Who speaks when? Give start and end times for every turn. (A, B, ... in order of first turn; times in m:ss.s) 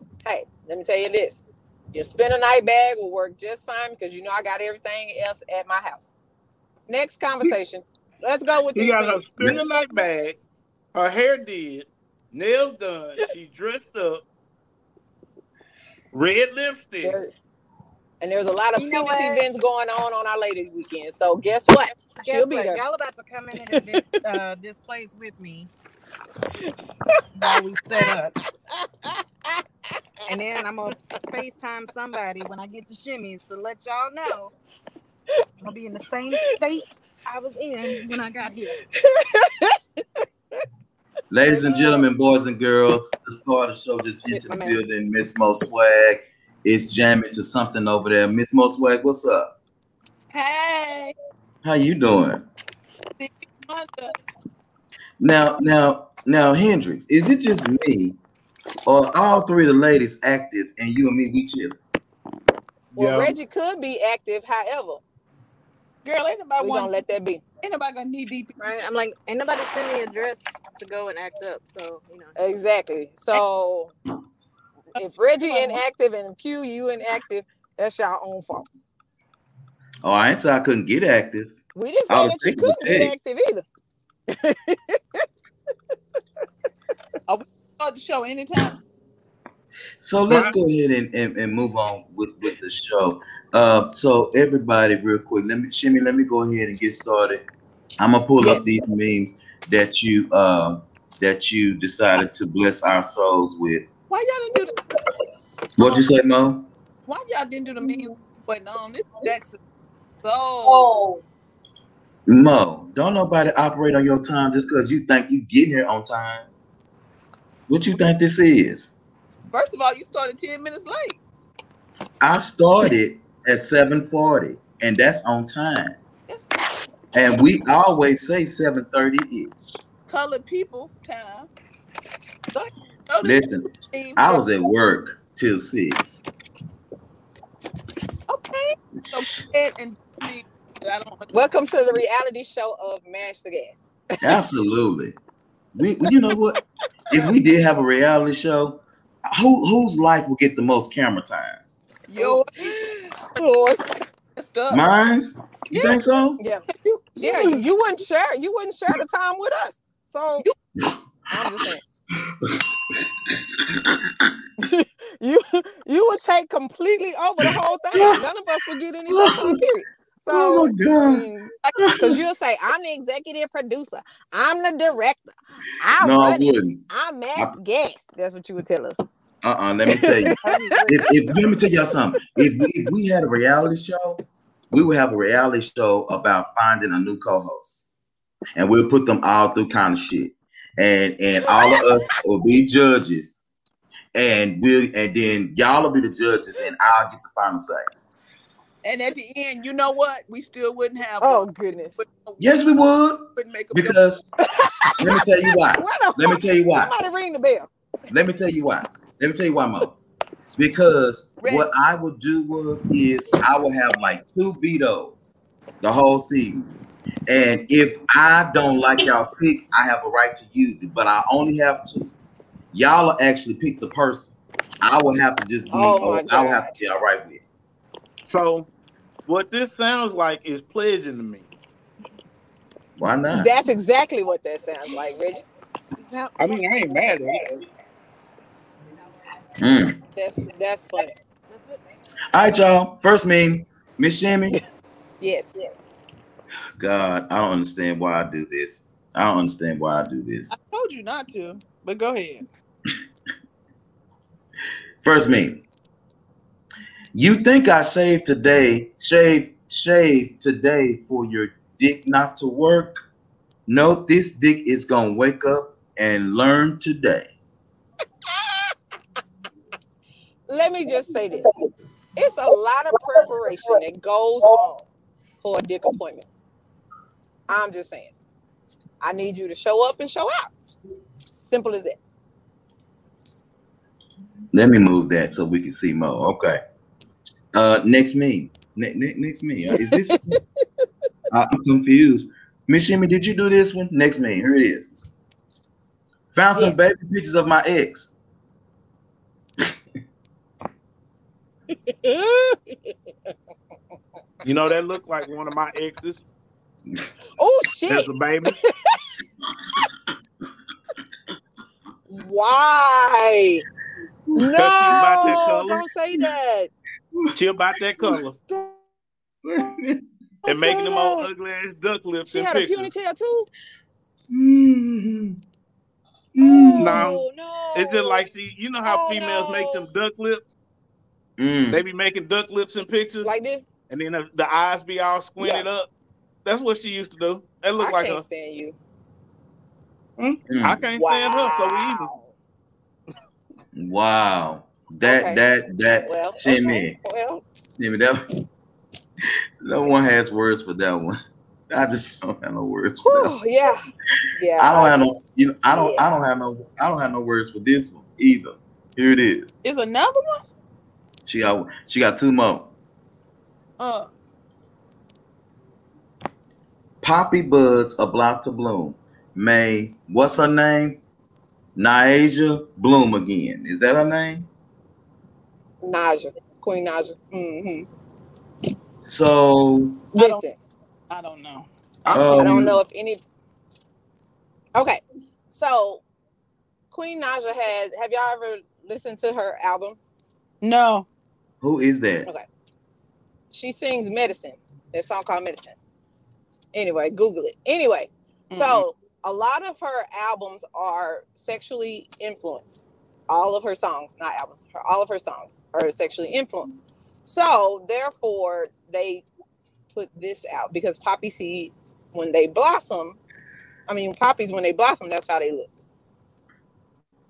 0:00.2-0:06.1 A
0:06.9-0:09.5 A
0:08.8-0:10.4 B
0:10.9-0:14.2 B
0:16.1-0:17.2 B
0:17.0-0:17.3 A
0:18.2-0:22.8 A
0:18.8-0:19.4 C
0:22.2-0:25.7 C
0:23.7-0:24.2 A
0:27.4-0:28.4 C
0:29.0-0:29.6 A
0:30.3-0:34.5 C
0:35.6-0:38.8 C
0:38.9-0:39.8 A
0:41.3-0:49.5 D
0:44.3-0:44.8 A
0:50.3-0:51.2 E
0:51.6-0:52.5 D
0:53.2-0:54.1 E
0:55.2-0:58.2 D
0:58.9-1:01.8 D
1:02.9-1:03.4 B
1:03.0-1:05.0 A
1:06.0-1:07.0 E
1:06.6-1:07.4 A
1:07.6-1:08.5 E
1:08.6-1:12.4 C
1:12.4-1:13.9 A
1:15.0-1:18.8 A
1:15.4-1:15.8 E
1:20.0-1:21.6 D
1:21.8-1:23.6 A
1:22.1-1:23.2 D
1:24.3-1:25.3 A
1:27.3-1:28.8 E
1:30.0-1:37.4 D
1:30.3-1:30.5 B
1:38.0-1:43.8 D
1:38.4-1:38.8 A
1:44.1-1:44.8 E
1:45.8-1:46.7 D
1:47.1-1:49.6 E
1:50.2-1:50.9 E
1:50.6-1:51.2 C
1:52.3-1:56.5 D
1:57.7-1:58.9 D
1:59.5-2:01.2 E
2:02.2-2:06.0 D
2:07.1-2:09.6 D
2:10.1-2:11.5 E
2:12.5-2:14.4 E
2:13.2-2:16.2 D
2:18.3-2:21.3 E
2:19.0-2:19.4 D
2:21.3-2:23.8 A
2:24.2-2:25.2 D
2:25.8-2:31.6 D
2:32.1-2:33.4 E
2:32.2-2:33.9 A
2:34.4-2:34.8 E
2:34.7-2:36.4 D
2:35.7-2:36.0 E
2:36.4-2:36.7 A
2:36.7-2:37.6 E
2:37.2-2:40.5 A
2:41.3-2:41.8 A
2:42.3-2:43.0 D
2:43.7-2:44.4 D
2:44.6-2:59.0 A
2:47.9-2:48.2 D
2:49.1-2:49.6 D
2:50.3-2:51.3 D
2:51.6-2:52.2 E
2:51.8-2:52.2 D
2:56.0-2:56.8 D
2:59.4-3:04.2 D
2:59.9-3:00.8 A
3:00.6-3:01.0 C
3:04.7-3:07.9 D
3:08.6-3:13.4 D
3:14.2-3:17.9 D
3:18.8-3:22.6 E
3:21.2-3:22.0 A
3:22.4-3:24.3 D
3:23.4-3:24.0 E
3:24.4-3:24.9 A
3:25.0-3:26.9 D
3:25.7-3:27.7 A
3:28.1-3:29.9 D
3:30.6-3:36.6 D
3:31.4-3:31.7 E
3:37.3-3:42.1 D
3:42.7-3:47.4 D
3:45.7-3:46.7 A
3:48.2-3:48.7 B
3:49.3-3:51.5 B
3:53.0-3:53.5 D
3:53.3-3:55.4 A
3:56.0-3:57.4 C
3:56.4-3:57.6 B
3:59.6-4:00.0 D
4:00.1-4:01.1 A
4:02.3-4:04.6 D
4:05.2-4:05.7 A
4:06.8-4:10.5 D
4:10.5-4:12.4 E
4:15.0-4:15.6 D
4:17.1-4:23.0 D
4:23.7-4:27.3 D
4:28.3-4:28.7 A
4:30.5-4:31.5 A
4:32.2-4:34.9 A
4:35.4-4:36.3 A
4:37.5-4:38.1 A
4:39.0-4:40.5 A
4:41.5-4:42.0 A
4:44.5-4:46.6 D
4:47.5-4:50.4 D
4:51.3-4:54.9 D
4:56.3-4:58.2 D
5:01.9-5:02.6 A
5:04.4-5:06.2 B
5:07.4-5:09.0 A
5:07.9-5:08.5 B
5:12.1-5:13.6 A
5:14.3-5:15.4 D
5:14.4-5:16.7 A
5:14.6-5:15.8 B
5:17.3-5:18.4 B
5:19.4-5:20.0 D
5:20.5-5:21.3 A
5:20.5-5:22.9 B
5:22.3-5:23.5 A
5:24.3-5:25.4 D
5:26.4-5:27.1 D
5:26.4-5:28.3 A
5:26.8-5:27.2 B
5:27.8-5:30.4 B
5:28.8-5:29.9 A
5:31.4-5:31.8 D
5:31.7-5:33.3 B
5:33.2-5:33.6 A
5:33.9-5:35.9 B
5:35.4-5:35.7 A
5:36.4-5:38.2 B
5:37.8-5:38.8 A
5:40.2-5:42.1 B
5:40.5-5:40.8 D
5:41.0-5:42.3 A
5:43.7-5:47.0 D
5:45.0-5:45.4 A
5:46.0-5:47.4 A
5:47.8-5:48.2 D
5:49.6-5:51.2 D
5:51.7-5:53.4 D
5:53.0-5:56.0 A
5:54.6-5:59.6 D
5:59.6-6:00.4 E
6:01.2-6:02.7 D
6:03.8-6:04.1 E
6:07.0-6:11.0 D
6:11.8-6:14.5 D
6:15.8-6:17.9 A
6:19.0-6:20.0 D
6:20.2-6:20.4 E
6:20.2-6:20.6 A
6:21.1-6:21.7 E
6:22.1-6:22.8 D
6:22.1-6:22.6 B
6:22.3-6:23.2 A
6:24.8-6:26.0 A
6:26.9-6:30.0 A
6:30.6-6:31.1 E
6:31.6-6:32.3 D
6:33.5-6:35.8 A
6:36.7-6:49.2 A
6:38.5-6:38.8 E
6:49.9-6:53.2 A
6:53.9-6:55.7 A